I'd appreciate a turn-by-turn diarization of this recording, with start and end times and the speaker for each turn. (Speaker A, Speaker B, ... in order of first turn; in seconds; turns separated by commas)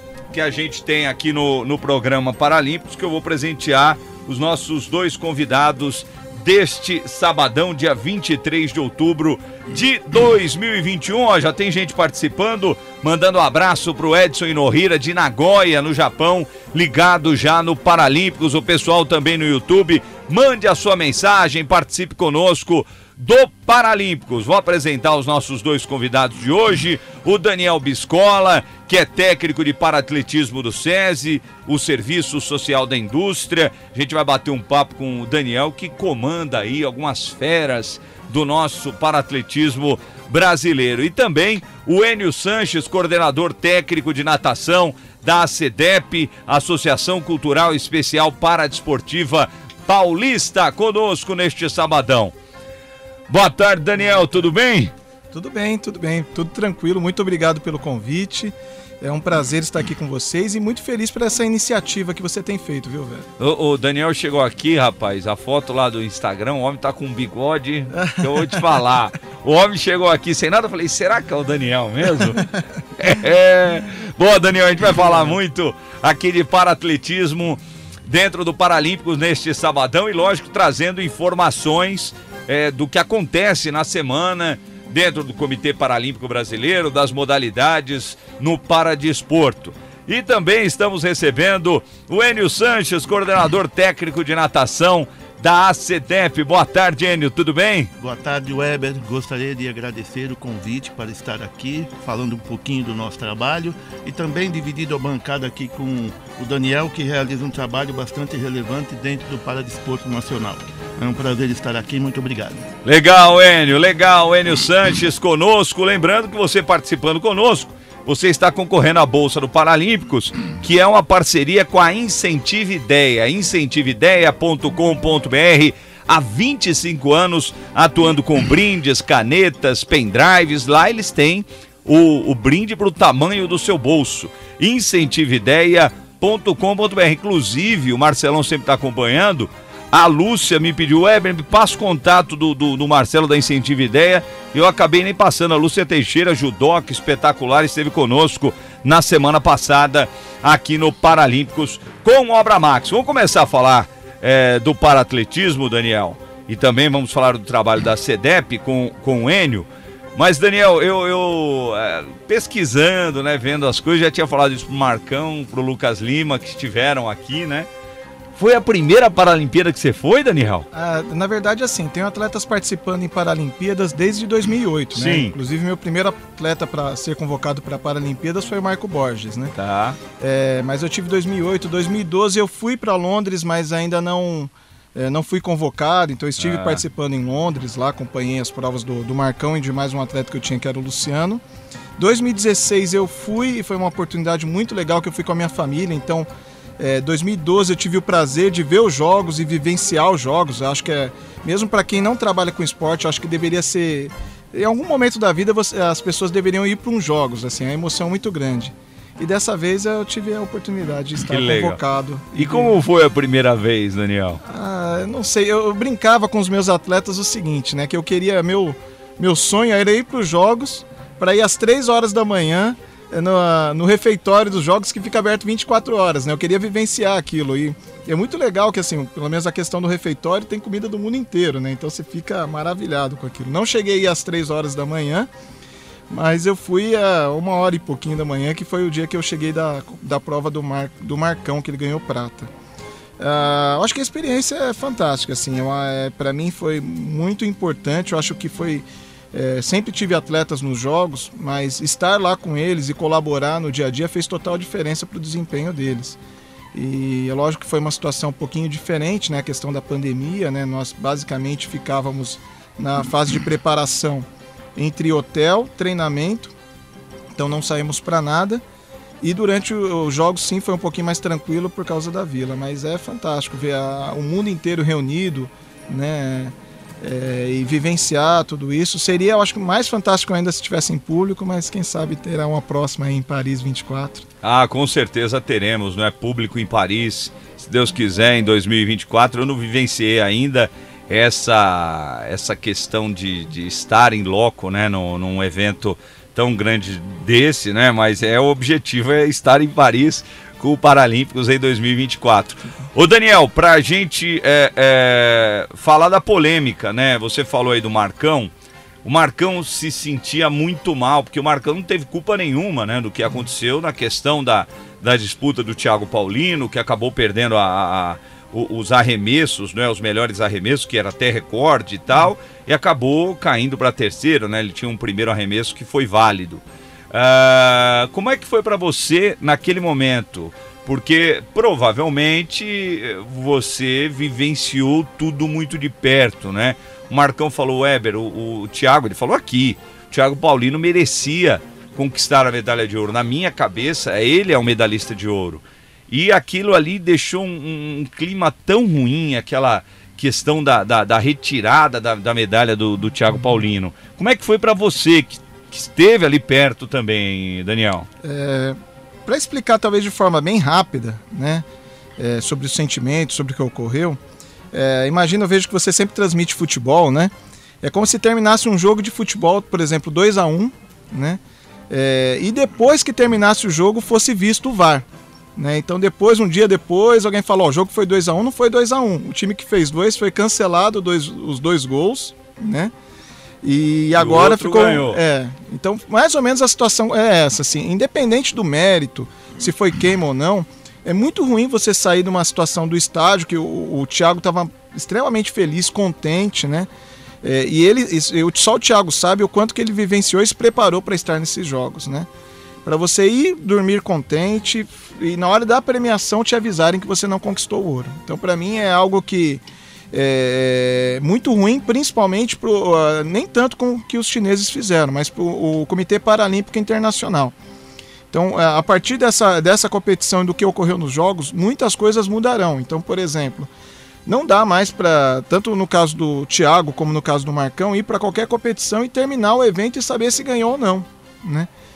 Speaker A: 0.3-52.3, Speaker A: 53.3-54.9, Speaker B: 55.3-63.3, Speaker A: 63.4-97.9, Speaker B: 68.0-68.6, Speaker C: 98.0-112.7, Speaker A: 112.8-167.7, Speaker A: 168.4-170.7, Speaker B: 170.7-179.5, Speaker A: 174.9-175.4, Speaker A: 179.6-180.0, Speaker B: 180.2-191.4, Speaker A: 186.4-186.8, Speaker B: 192.0-196.3, Speaker B: 196.8-212.8, Speaker A: 211.2-211.8, Speaker A: 212.3-214.4, Speaker B: 214.4-235.3, Speaker B: 236.1-242.5, Speaker B: 243.2-256.2, Speaker B: 256.7-266.5, Speaker B: 267.4-268.6, Speaker B: 269.2-284.3, Speaker A: 284.4-308.5, Speaker A: 309.1-358.1, Speaker B: 358.2-361.6, Speaker B: 362.2-364.2, Speaker B: 364.7-375.1, Speaker B: 375.6-382.9, Speaker B: 383.6-396.9, Speaker A: 384.2-385.2, Speaker B: 397.4-402.3, Speaker B: 402.9-417.5, Speaker B: 418.3-423.7, Speaker B: 424.3-431.7